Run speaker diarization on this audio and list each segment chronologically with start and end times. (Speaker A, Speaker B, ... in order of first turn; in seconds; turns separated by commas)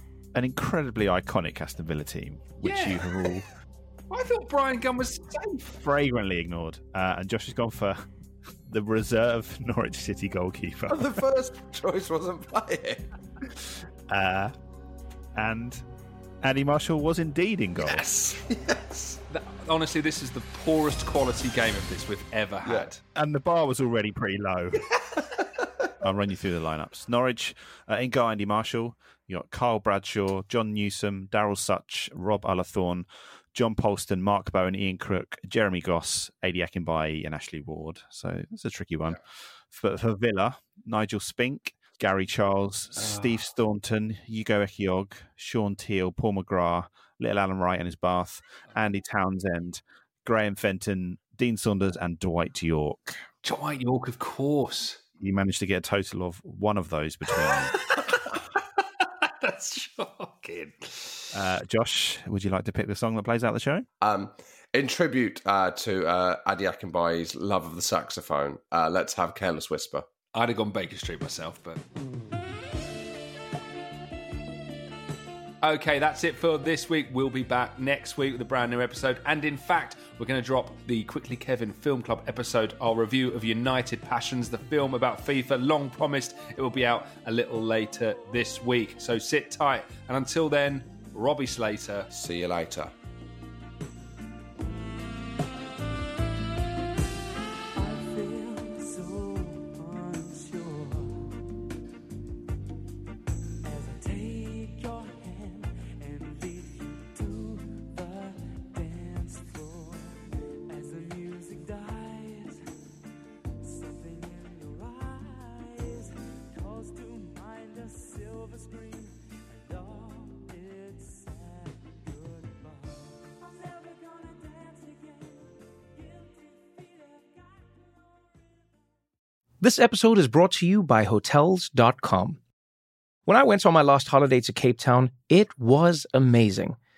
Speaker A: 0.3-3.5, Speaker B: 2.6-3.1, Speaker B: 4.1-5.7, Speaker A: 5.7-8.0, Speaker A: 8.7-11.2, Speaker C: 10.9-13.0, Speaker A: 14.1-14.5, Speaker A: 15.3-15.8, Speaker A: 16.4-18.1, Speaker C: 18.1-19.2, Speaker B: 19.3-23.0, Speaker C: 22.6-22.9, Speaker A: 23.1-25.0, Speaker A: 26.0-39.2, Speaker A: 39.7-53.2, Speaker B: 43.0-43.5, Speaker B: 53.4-55.0, Speaker A: 55.2-57.8, Speaker B: 57.5-58.1, Speaker B: 59.2-61.3, Speaker A: 61.3-63.9, Speaker C: 64.0-70.0, Speaker B: 70.3-71.8, Speaker B: 75.6-92.1, Speaker C: 92.1-92.9, Speaker D: 97.7-101.4, Speaker D: 103.6-112.6, Speaker D: 113.6-127.8, Speaker E: 129.6-132.4, Speaker E: 133.3-136.8